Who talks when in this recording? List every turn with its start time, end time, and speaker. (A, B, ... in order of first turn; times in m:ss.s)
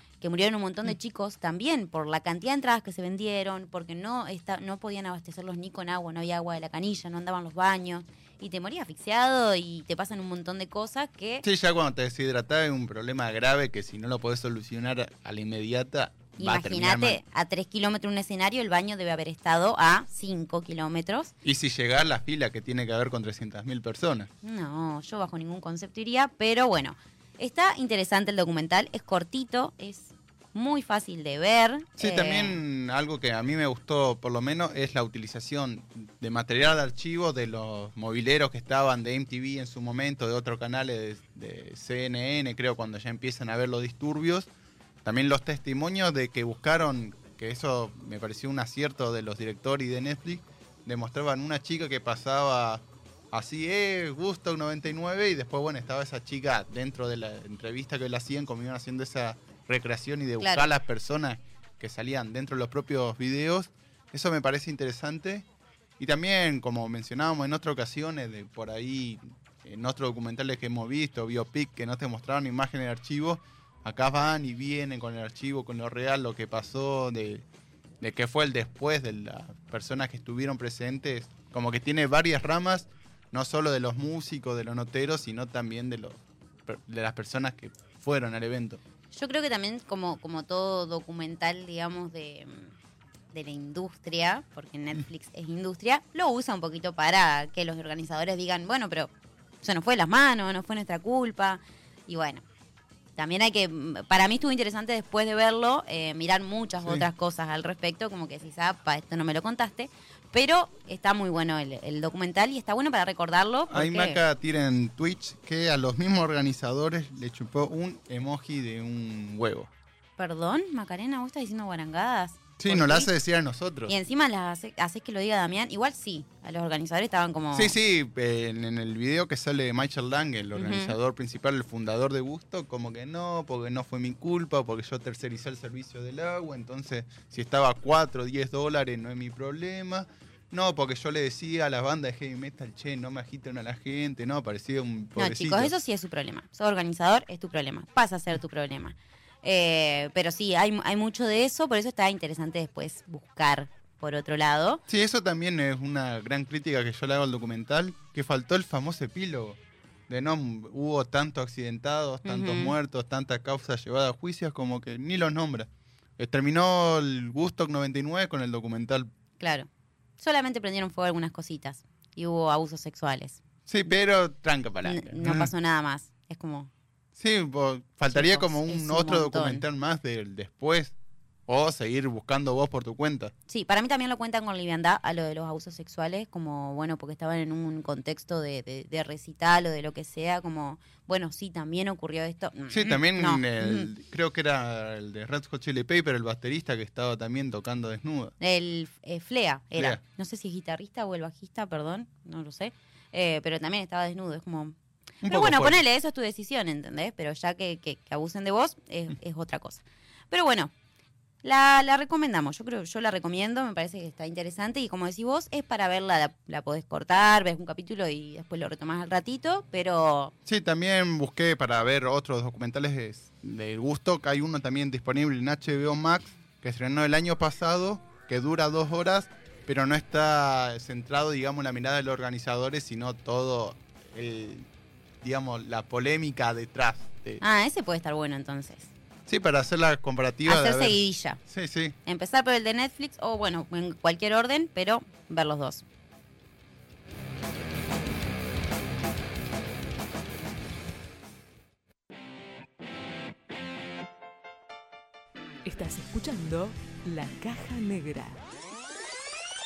0:00.2-0:11.4 A
0:11.4-0:17.2 B
0:16.4-0:21.3 A
0:21.4-0:24.3 B
0:24.4-0:32.6 A
0:32.0-0:44.5 B
0:45.0-1:05.5 B
1:00.4-1:00.7 A
1:06.0-1:17.4 B
1:18.0-1:28.8 B
1:29.1-1:32.7 A
1:33.3-1:42.4 A
1:43.2-1:54.2 A
1:53.7-1:59.7 B
2:00.2-2:03.1 A
2:02.6-2:03.9 B
2:03.9-2:07.8 A
2:07.5-2:25.7 B
2:10.5-2:11.0 A
2:25.2-2:34.8 A
2:34.9-2:49.1 B
2:42.2-2:42.7 A
2:49.4-2:49.7 A
2:50.2-2:53.4 A
2:53.7-2:55.5 B
2:54.8-2:56.7 A
2:57.2-3:00.9 B
2:58.1-2:59.6 A
3:01.5-3:03.3 B
3:03.5-3:13.9 A
3:12.7-3:18.3 B
3:18.4-3:30.7 A
3:19.7-3:20.0 B
3:25.2-3:25.8 B
3:31.4-3:40.3 A
3:40.4-3:54.7 B
3:55.2-3:57.4 B
3:57.4-3:58.9 A
3:59.2-4:02.0 B
4:00.4-4:01.4 A
4:02.0-4:05.8 A
4:15.6-4:18.4 C